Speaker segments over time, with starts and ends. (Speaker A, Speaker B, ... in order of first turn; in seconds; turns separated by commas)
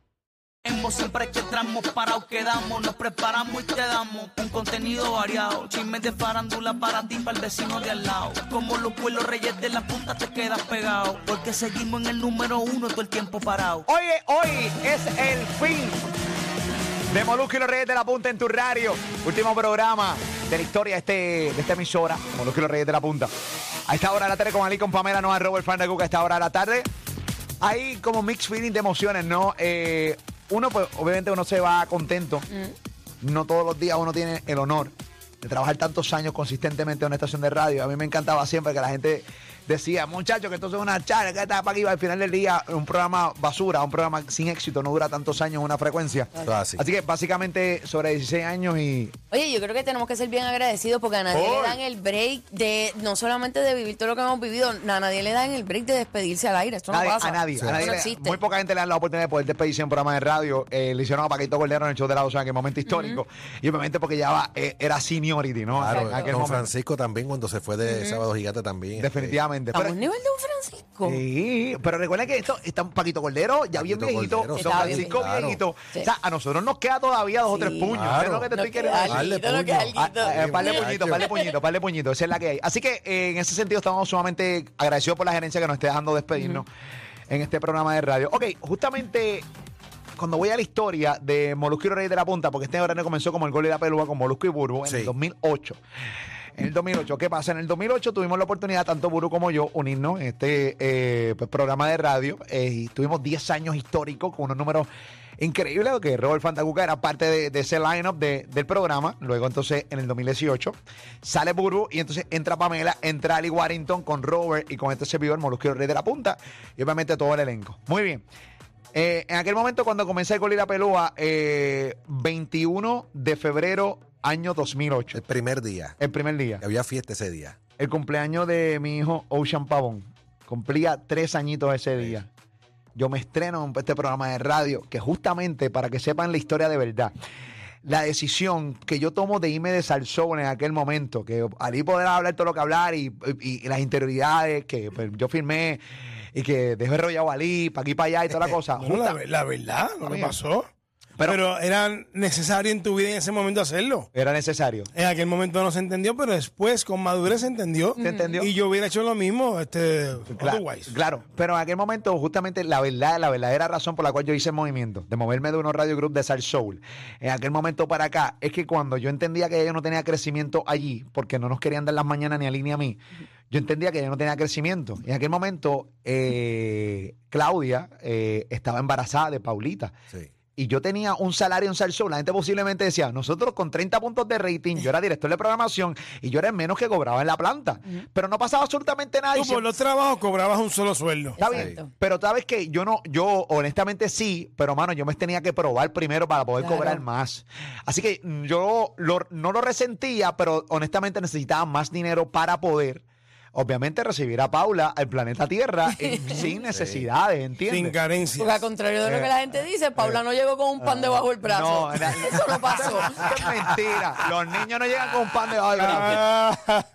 Speaker A: 0.6-13.8, Speaker B: 13.8-16.1, Speaker B: 17.1-23.3, Speaker B: 23.9-26.9, Speaker B: 27.6-32.5, Speaker C: 32.5-32.7, Speaker B: 33.2-49.1, Speaker D: 46.4-46.8, Speaker C: 49.3-58.4, Speaker B: 51.3-51.8, Speaker B: 56.9-66.7, Speaker D: 57.5-57.8, Speaker C: 62.9-63.2, Speaker D: 65.7-69.4, Speaker C: 65.9-66.3, Speaker C: 67.8-68.2, Speaker B: 69.0-70.0, Speaker C: 69.7-71.2, Speaker B: 71.0-79.3, Speaker D: 73.7-75.6, Speaker C: 74.6-75.2, Speaker C: 77.5-81.5, Speaker D: 77.9-78.5, Speaker D: 79.0-81.3, Speaker B: 79.9-86.7, Speaker C: 86.3-86.6, Speaker B: 87.3-89.4, Speaker B: 90.2-95.8, Speaker D: 94.8-95.1, Speaker B: 96.5-118.2, Speaker B: 118.9-125.2, Speaker D: 125.1-126.0, Speaker B: 126.0-126.6, Speaker D: 126.6-127.6, Speaker B: 127.8-132.3, Speaker B: 132.9-137.1, Speaker B: 137.8-145.8, Speaker B: 146.3-149.2, Speaker E: 148.7-150.7, Speaker B: 150.0-150.3, Speaker E: 151.2-154.1, Speaker B: 154.1-154.9, Speaker E: 154.9-160.9, Speaker C: 158.0-158.4, Speaker B: 158.0-158.5, Speaker B: 160.3-179.9, Speaker B: 180.5-189.7, Speaker E: 189.3-191.4, Speaker B: 191.4-207.9, Speaker C: 191.4-191.9, Speaker D: 191.5-191.8, Speaker C: 196.6-197.0, Speaker C: 206.0-206.4, Speaker D: 206.7-207.0, Speaker E: 207.7-208.7, Speaker C: 208.4-213.3, Speaker B: 209.0-209.3, Speaker B: 210.8-216.3, Speaker E: 215.7-216.8